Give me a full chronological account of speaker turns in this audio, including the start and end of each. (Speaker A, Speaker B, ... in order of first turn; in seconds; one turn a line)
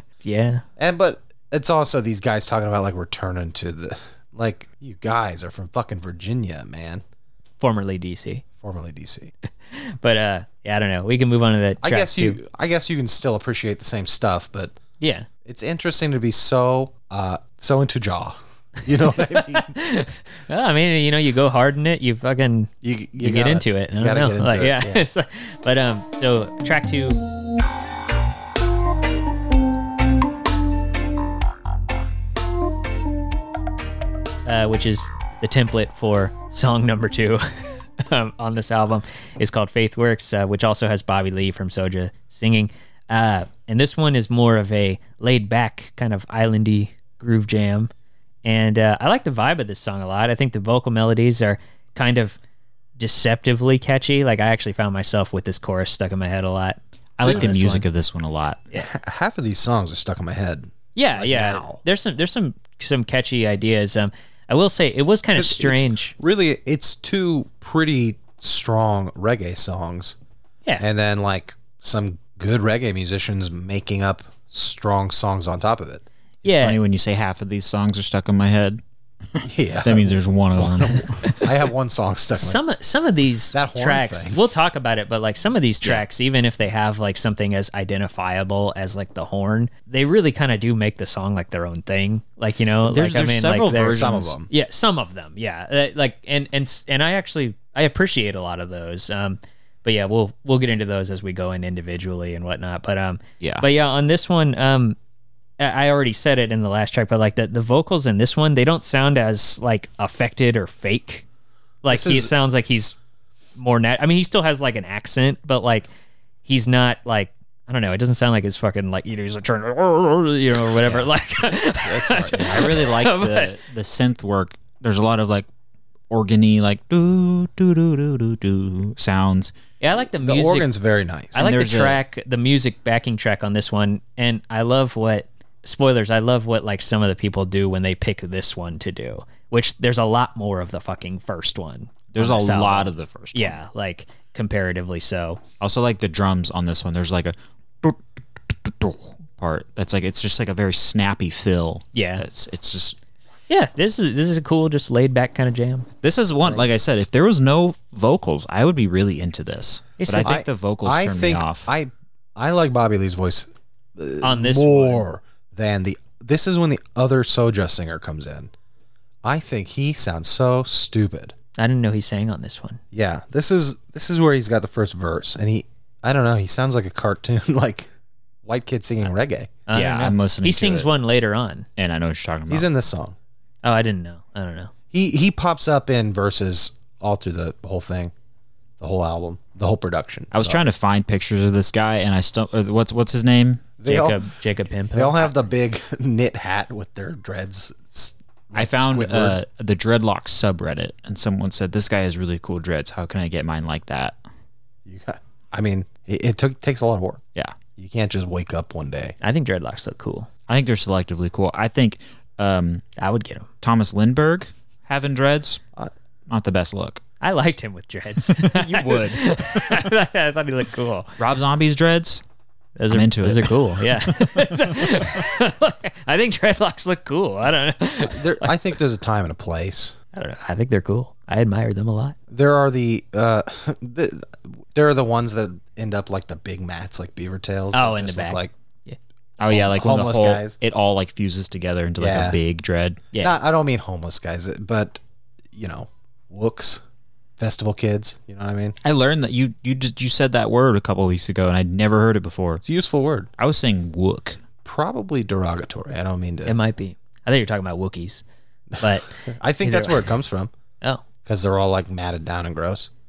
Speaker A: 0.2-0.6
Speaker B: 0.8-7.0
Speaker A: 7.6-8.4
Speaker B: 8.6-9.3
Speaker A: 9.7-12.4
Speaker B: 11.8-14.7
Speaker A: 15.0-15.3
Speaker B: 15.4-19.7
Speaker A: 19.1-27.2
Speaker B: 22.8-25.0
Speaker A: 34.5-47.9
Speaker A: 48.4-52.4
Speaker A: 53.0-57.8
Speaker C: 57.2-58.6
Speaker B: 57.2-57.5
Speaker B: 58.8-61.8
Speaker A: 61.0-66.1
Speaker B: 65.3-70.2
Speaker B: 70.8-76.0
Speaker C: 76.4-78.8
Speaker A: 76.4-76.8
Speaker C: 79.3-81.5
Speaker B: 79.4-82.6
Speaker A: 82.3-105.0
Speaker B: 83.5-84.4
Speaker C: 92.8-94.3
Speaker B: 93.9-94.5
Speaker C: 103.4-103.7
Speaker A: 105.6-111.2
Speaker A: 111.8-113.0
Speaker B: 111.9-112.3
Speaker A: 113.5-115.9
Speaker A: 116.4-123.5
Speaker B: 121.8-122.8
Speaker C: 122.3-125.5
Speaker C: 126.1-129.5
Speaker A: 129.8-130.7
Speaker B: 130.2-131.4
Speaker A: 131.3-145.4
Speaker C: 131.3-132.0
Speaker C: 142.1-143.6
Speaker C: 145.6-148.0
Speaker C: 148.5-153.0
Speaker A: 151.9-152.2
Speaker A: 153.5-155.9
Speaker C: 156.0-161.7
Speaker A: 160.0-160.3
Speaker B: 160.2-168.5
Speaker A: 164.2-165.0
Speaker B: 169.2-171.3
Speaker A: 171.6-172.8
Speaker B: 172.9-177.9
Speaker B: 178.4-179.6
Speaker A: 179.7-181.7
Speaker C: 179.7-180.9
Speaker C: 181.8-182.7
Speaker B: 182.5-183.2
Speaker A: 183.6-184.7
Speaker B: 184.9-188.1
Speaker B: 188.8-190.6
Speaker C: 190.3-193.8
Speaker B: 193.8-194.2
Speaker A: 193.8-195.3
Speaker B: 194.9-199.4
Speaker C: 198.5-204.2
Speaker B: 204.8-207.2
Speaker B: 207.8-209.2
Speaker A: 209.2-210.3
Speaker C: 210.5-212.8
Speaker A: 213.0-213.5
Speaker C: 213.6-215.6
Speaker C: 216.3-217.0
Speaker A: 217.2-221.1
Speaker C: 218.2-219.8
Speaker C: 221.2-222.2
Speaker A: 222.8-228.5
Speaker C: 222.9-224.4
Speaker B: 228.0-229.9
Speaker A: 230.1-232.2
Speaker B: 232.3-238.5
Speaker A: 237.7-239.0
Speaker C: 239.4-243.0
Speaker B: 239.5-240.6
Speaker B: 242.0-242.4
Speaker B: 243.2-245.0
Speaker B: 245.5-246.8
Speaker B: 247.4-248.8
Speaker C: 248.8-252.6
Speaker B: 252.6-253.3
Speaker C: 253.4-254.4
Speaker B: 254.6-256.6
Speaker A: 256.4-258.2
Speaker B: 258.7-260.5
Speaker A: 258.8-260.1
Speaker B: 261.2-262.9